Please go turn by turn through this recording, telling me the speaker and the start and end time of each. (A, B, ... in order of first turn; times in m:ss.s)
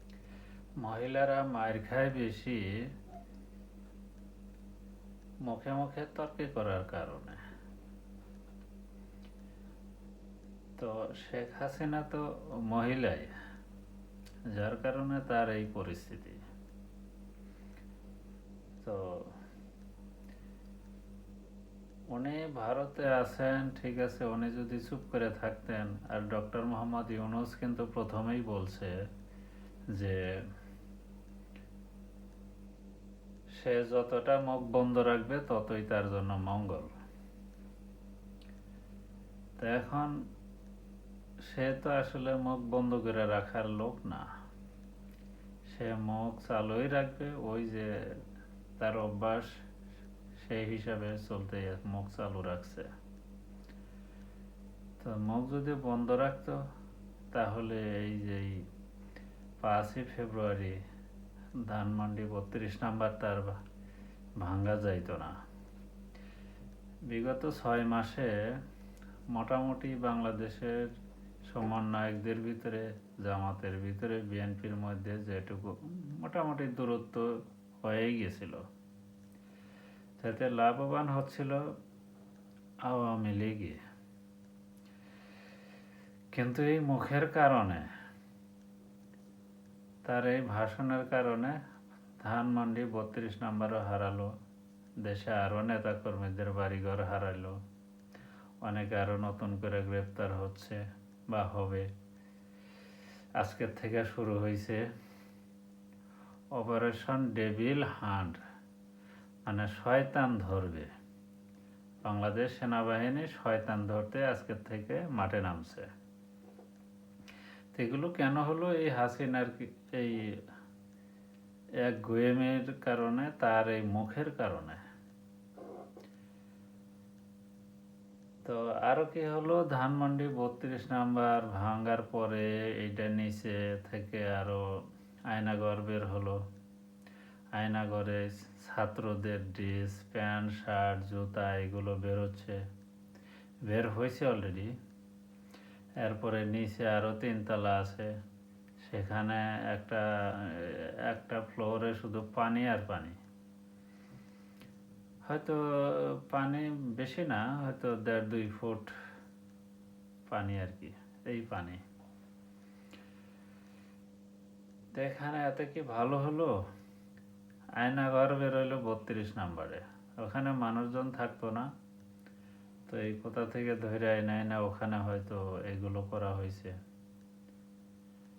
0:00.8-0:02.7 A
0:05.4-0:07.4 A
0:10.8-0:13.3 A
0:14.5-0:16.4 A
0:18.8-0:19.4 A
0:22.1-0:29.0 A
0:29.9-0:30.2 A
0:33.6-0:36.9 A
0:39.6-0:40.2 A
0:41.4-0:44.2 A
0:45.7-0:48.2 A
0:48.8-0:49.5 A
0:50.4-0:52.9 A
0:55.0-0:56.6 A
0:57.3-0:58.6 A
0:59.6-1:00.8 A
1:01.6-1:03.5 A
1:04.4-1:05.3 A
1:07.1-1:08.3 A
1:09.3-1:10.8 A
1:11.5-1:17.3 A
1:17.8-1:18.6 A
1:20.2-1:21.6 A
1:22.8-1:23.8 A
1:26.3-1:27.9 A
1:30.0-1:31.6 A
1:32.2-1:34.3 A
1:35.0-1:37.6 A
1:38.6-1:41.9 A
1:43.4-1:44.8 A
1:46.5-1:48.4 A
1:49.4-1:50.9 A
1:52.0-1:55.9 A
1:57.7-2:00.4 A
2:01.8-2:04.8 A
2:08.4-2:14.6 A
2:15.3-2:16.4 A
2:17.6-2:22.6 A
2:23.7-2:24.7 A
2:26.0-2:28.1 A
2:28.8-2:33.2 A
2:35.2-2:38.9 A
2:40.3-2:41.8 A
2:44.9-2:46.5 A
2:47.8-2:51.7 A
2:52.9-2:56.7 A